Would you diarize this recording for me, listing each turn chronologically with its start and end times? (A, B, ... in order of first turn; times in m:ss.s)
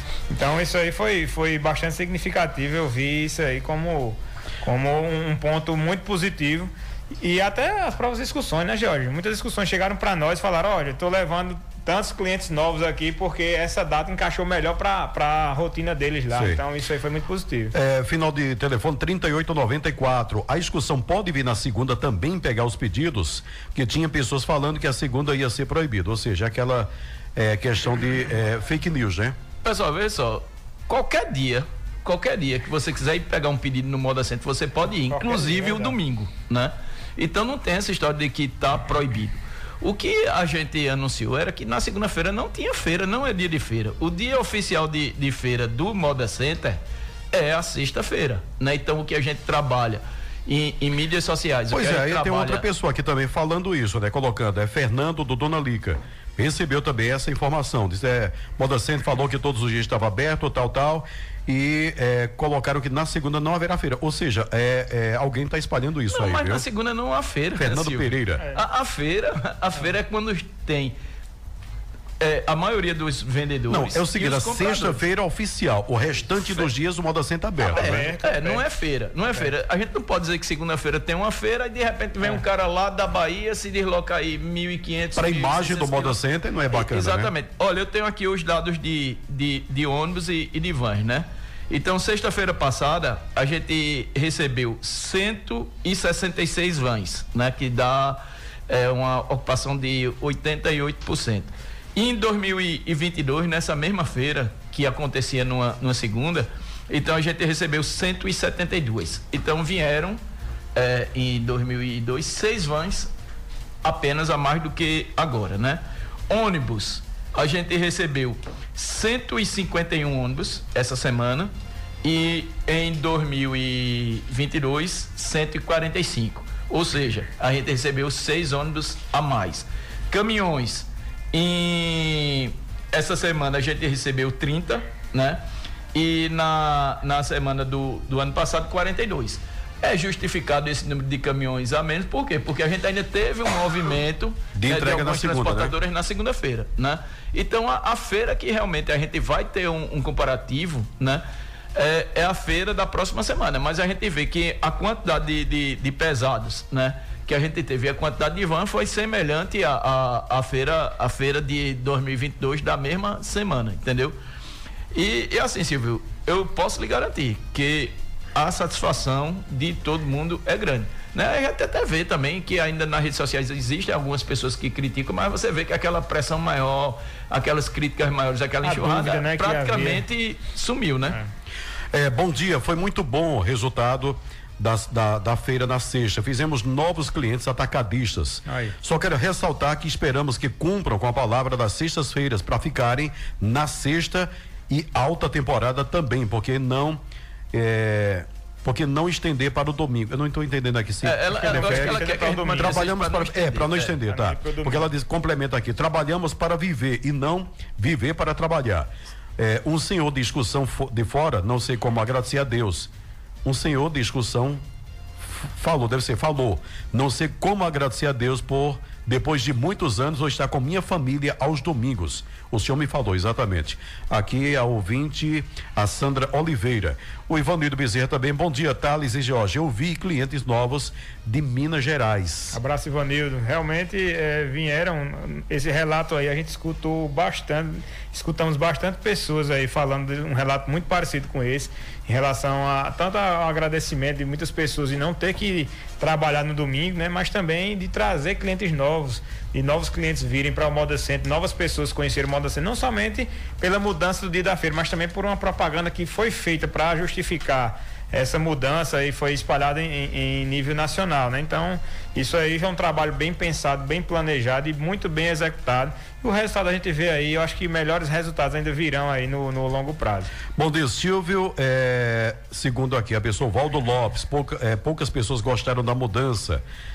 0:00.3-0:17.8 A
0:16.3-0:16.6 B
0:17.7-0:29.4 B
0:29.6-0:52.6 C
0:35.1-0:36.0 A
0:51.7-1:06.6 B
1:06.1-1:11.0 C
1:07.6-1:08.5 B
1:12.2-1:15.0 C
1:13.7-1:18.1 B
1:17.7-1:26.2 C
1:17.7-1:18.6 A
1:25.1-1:27.3 B
1:26.7-1:50.2 C
1:50.8-1:53.1 C
1:53.8-2:01.5 C
2:02.0-2:15.4 C
2:15.9-2:31.2 C
2:24.6-2:25.8 B
2:31.8-2:44.2 C
2:44.9-3:01.2 C
2:58.6-3:00.0 A
3:01.9-3:17.0 B
3:08.5-3:08.8 A
3:17.5-3:32.9 B
3:21.0-3:23.9 C
3:21.3-3:22.9 A
3:23.9-3:24.9 A
3:33.4-3:34.6 B
3:35.2-3:52.6 B
3:52.5-4:30.3 A
4:30.6-4:36.6 B